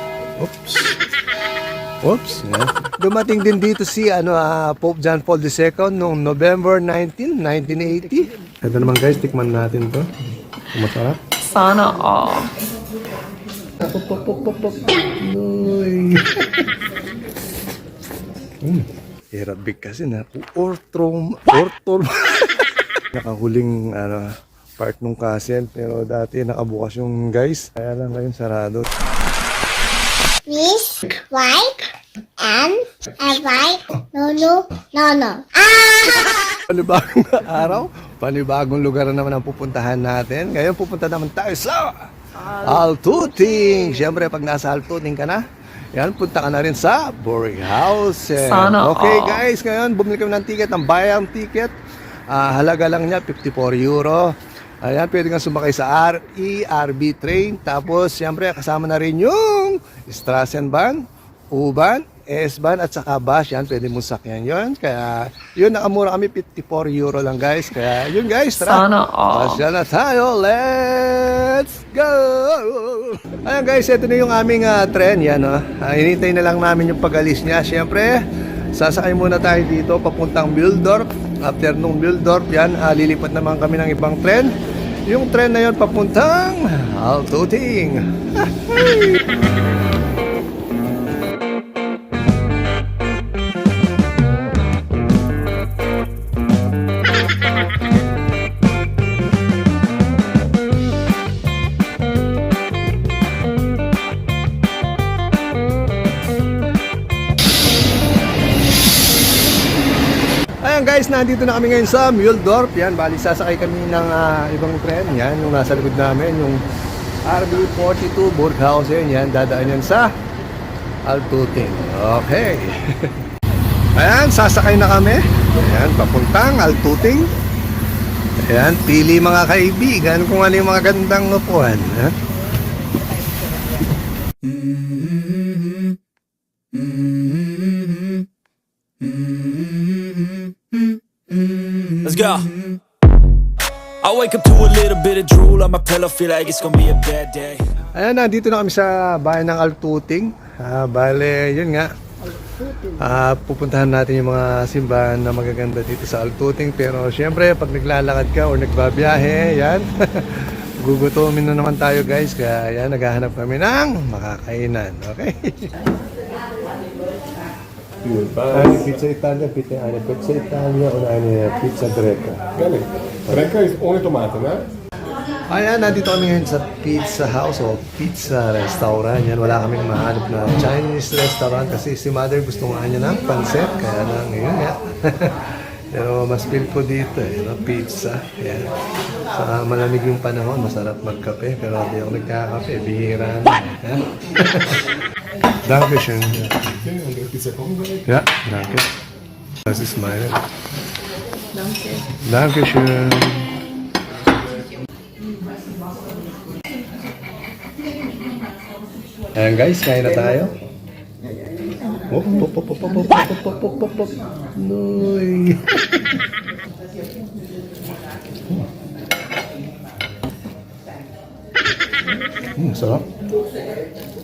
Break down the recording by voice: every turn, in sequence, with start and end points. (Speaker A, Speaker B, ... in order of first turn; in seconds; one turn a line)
Speaker A: 0.4-1.0
Speaker A: 2.0-10.1
Speaker A: 10.7-11.2
Speaker B: 11.4-12.5
Speaker A: 13.8-16.8
Speaker A: 18.6-28.9
Speaker C: 30.5-36.4
Speaker A: 36.3-51.7
Speaker B: 48.4-49.4
Speaker A: 52.3-84.5
Speaker B: 68.5-69.6
Speaker A: 85.0-89.2
Speaker A: 110.6-116.6
Speaker A: 117.2-120.1
Speaker A: 121.0-123.2
Speaker A: 123.9-127.3
Speaker A: 128.4-132.2
Speaker D: 135.4-135.8
Speaker D: 137.1-138.0
Speaker D: 139.0-140.8
Speaker D: 141.6-142.8
Speaker D: 144.0-147.7
Speaker A: 147.9-151.9
Speaker A: 152.6-165.7
Speaker A: 168.5-172.6
Speaker A: 173.2-173.6
Speaker E: 173.6-174.6
Speaker A: 175.5-188.7
Speaker A: 189.3-194.9
Speaker A: 195.5-196.8
Speaker E: 197.0-197.9
Speaker A: 198.0-198.9
Speaker A: 199.6-200.4
Speaker A: 202.0-203.6
Speaker A: 209.3-210.5
Speaker E: 211.7-211.9
Speaker A: 212.1-216.2
Speaker A: 218.3-218.7
Speaker A: 222.5-223.1